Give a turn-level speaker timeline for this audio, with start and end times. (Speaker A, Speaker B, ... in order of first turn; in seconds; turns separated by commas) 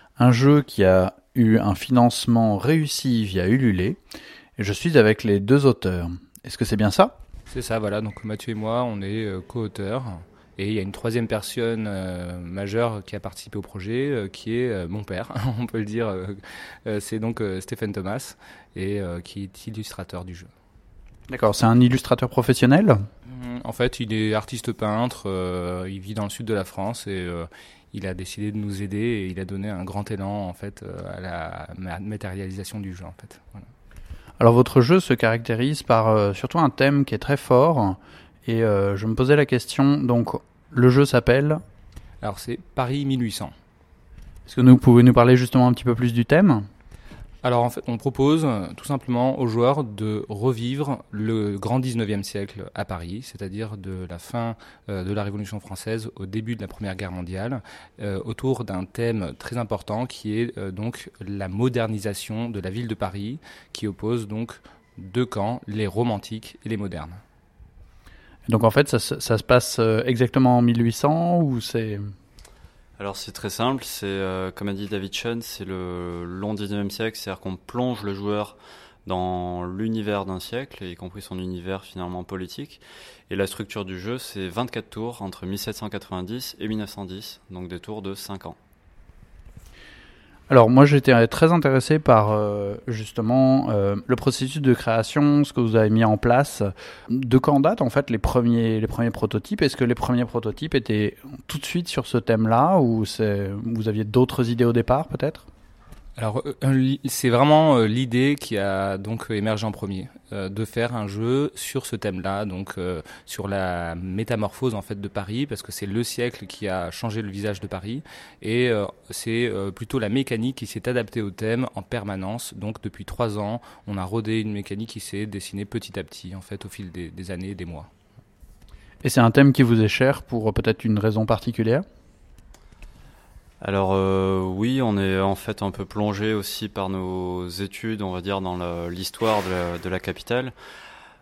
Speaker A: 0.2-4.0, Speaker A: 4.6-7.1, Speaker B: 7.5-20.5, Speaker A: 21.3-23.0, Speaker B: 23.3-33.6, Speaker A: 34.4-41.6, Speaker B: 42.2-43.5, Speaker A: 44.5-46.7, Speaker B: 47.4-67.2, Speaker A: 68.5-72.1, Speaker C: 73.0-88.6, Speaker A: 90.5-105.5, Speaker B: 106.2-127.9, Speaker A: 129.0-131.8, Speaker C: 133.6-140.5